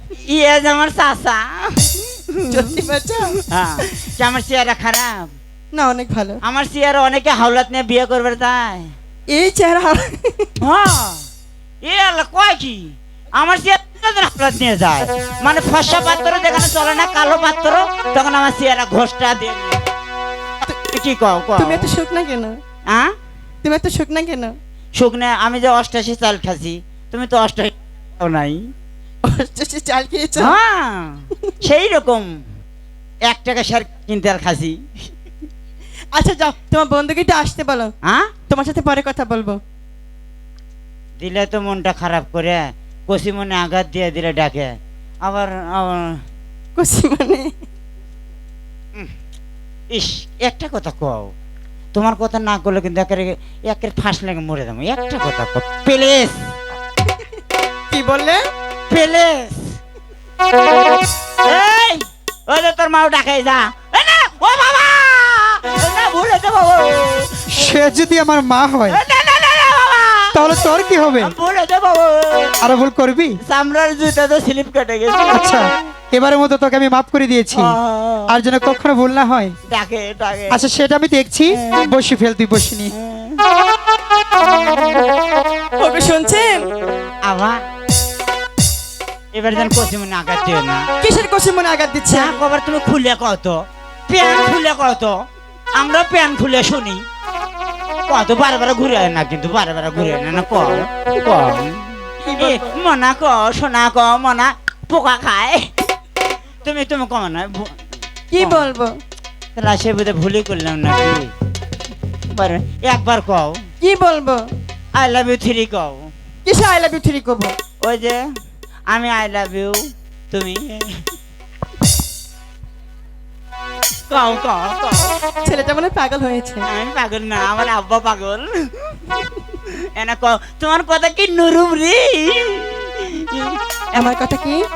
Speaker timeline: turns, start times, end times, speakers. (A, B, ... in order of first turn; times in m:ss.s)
0:00.2-0:02.7 A
0:02.5-0:03.4 B
0:03.5-0:05.3 A
0:05.7-0:06.4 B
0:06.4-0:08.9 A
0:09.3-0:10.5 B
0:10.6-0:11.2 A
0:11.8-0:19.9 A
0:20.9-0:21.9 A
0:21.6-0:22.6 B
0:23.6-0:24.6 B
0:25.0-0:28.6 A
0:29.2-0:30.6 B
0:30.4-0:32.3 A
0:33.3-0:34.8 A
0:36.2-0:37.9 B
0:38.5-0:39.6 B
0:41.2-0:46.2 A
0:46.8-0:47.5 B
0:49.9-0:51.3 A
0:51.9-0:56.4 A
0:57.9-0:58.4 B
0:58.9-0:59.8 A
1:01.4-1:07.8 A
1:07.5-1:09.0 C
1:08.9-1:12.7 A
1:10.3-1:11.3 C
1:12.6-1:13.4 C
1:13.5-1:15.6 A
1:15.3-1:17.8 C
1:17.5-1:18.3 A
1:18.3-1:19.5 C
1:19.7-1:20.6 A
1:20.5-1:22.9 C
1:21.6-1:21.9 A
1:23.0-1:23.4 A
1:25.8-1:26.6 B
1:27.2-1:27.6 A
1:29.3-1:30.8 A
1:31.0-1:32.4 B
1:32.1-1:35.2 A
1:35.8-1:37.0 A
1:38.1-1:45.7 A
1:42.3-1:42.7 B
1:46.6-1:47.8 A
1:48.3-1:48.9 B
1:48.4-1:48.7 A
1:49.6-1:51.3 A
1:52.4-1:53.6 A
1:53.8-1:54.4 B
1:55.0-1:56.1 A
1:56.5-1:57.6 B
1:57.8-1:58.2 A
1:58.9-1:59.8 A
2:00.3-2:01.0 A
2:04.1-2:05.2 A
2:05.4-2:06.6 B
2:06.7-2:09.1 A
2:10.0-2:13.6 A
2:13.9-2:14.6 B